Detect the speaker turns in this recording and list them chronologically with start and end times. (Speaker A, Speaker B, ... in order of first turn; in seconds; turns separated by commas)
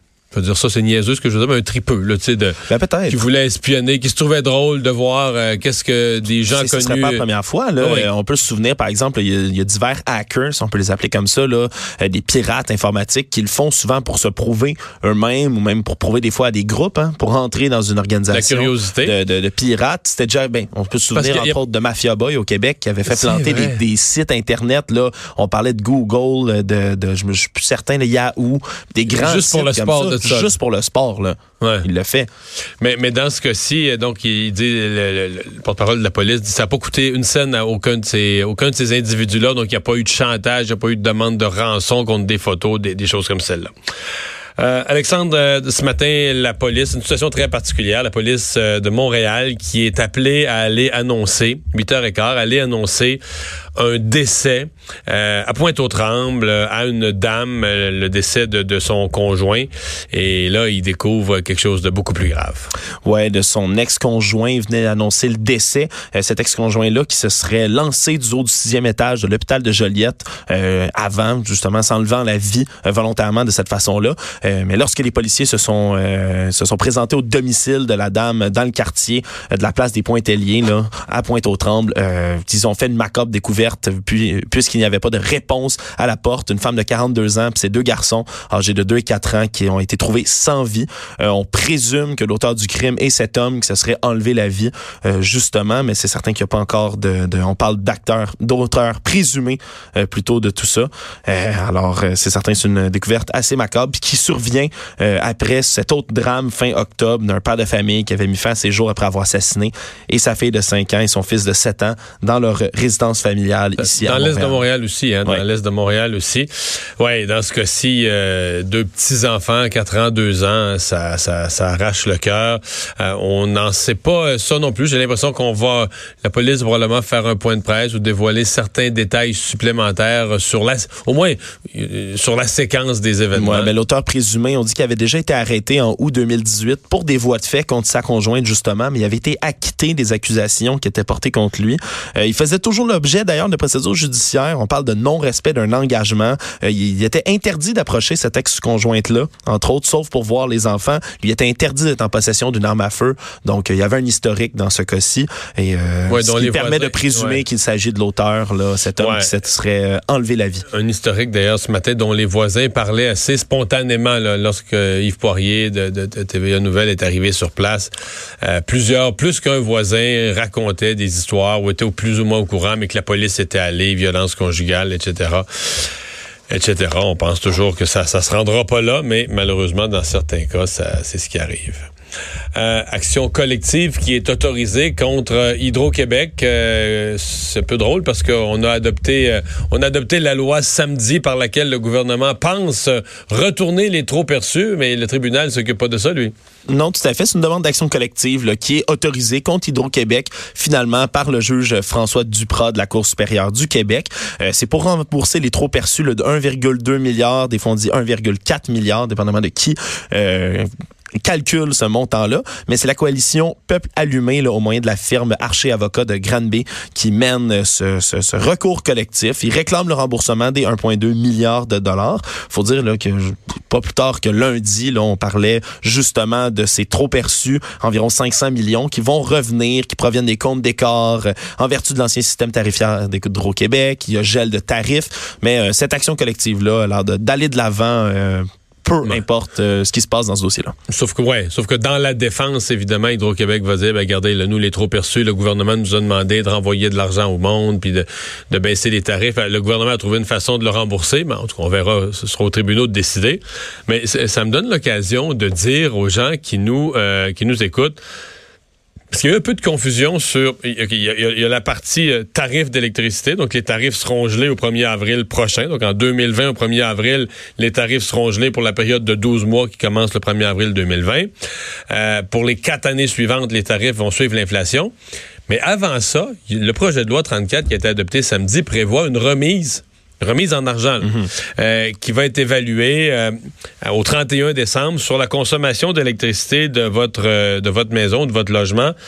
Speaker A: 0.3-2.6, Speaker B: 2.7-3.2, Speaker A: 3.1-7.3, Speaker B: 6.5-32.3, Speaker A: 7.8-8.1, Speaker A: 18.3-19.1, Speaker A: 21.1-21.6, Speaker A: 23.1-23.8, Speaker A: 29.1-30.5, Speaker A: 31.6-31.9, Speaker A: 32.8-43.7, Speaker A: 44.6-53.2, Speaker A: 53.8-62.7, Speaker B: 63.0-114.6, Speaker A: 113.8-133.7, Speaker B: 133.3-160.7, Speaker A: 156.1-157.4, Speaker A: 159.0-159.3, Speaker A: 160.7-175.9, Speaker A: 176.5-181.9, Speaker A: 182.5-196.3, Speaker B: 196.7-210.7, Speaker B: 211.2-240.7, Speaker A: 240.9-258.0, Speaker A: 259.1-271.3, Speaker A: 271.9-274.9, Speaker A: 275.5-288.9, Speaker B: 281.0-281.3